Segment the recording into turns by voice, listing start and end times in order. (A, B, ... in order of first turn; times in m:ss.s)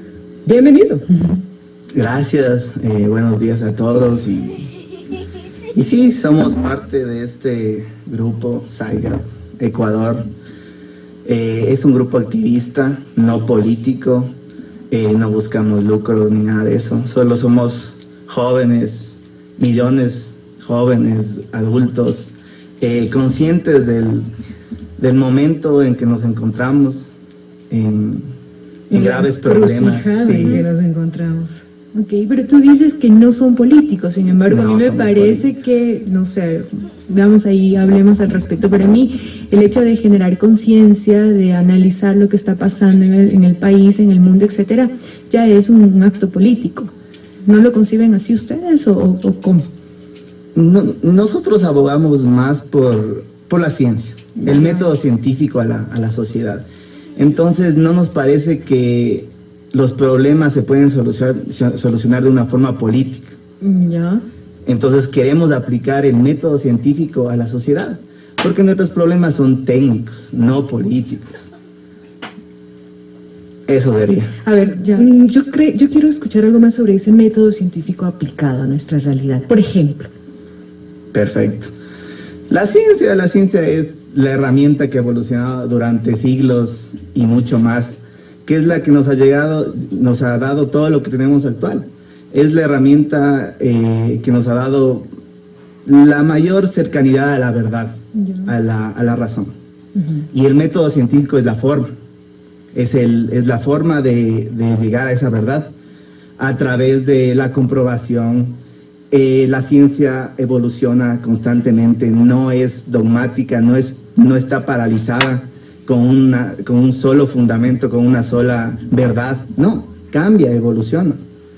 0:00.4-0:01.1 A
0:01.9-0:04.8 B
0:05.7-0:10.2 B
0:11.2-0:14.3 B
0:14.9-0:24.3 B
0:25.0-0:27.1 B
0:27.7-0:28.2 B
0:28.9-0:31.6 A
0:28.9-0:30.6 B
0:31.9-0:46.9 C
0:34.4-0:35.5 B
0:47.4-0:49.7 C
0:50.5-0:56.6 B
0:54.3-0:54.9 C
0:57.2-1:03.4 B
1:03.6-1:04.2 C
1:04.6-1:11.5 B
1:13.7-1:14.4 B
1:14.4-1:20.1 A
1:14.8-1:15.1 C
1:21.1-1:21.7 B
1:22.5-1:35.1 B
1:35.8-1:39.5 B
1:38.1-1:38.5 C
1:40.3-1:41.9 B
1:42.7-1:45.7 B
1:46.4-1:48.6 B
1:49.1-2:01.2 B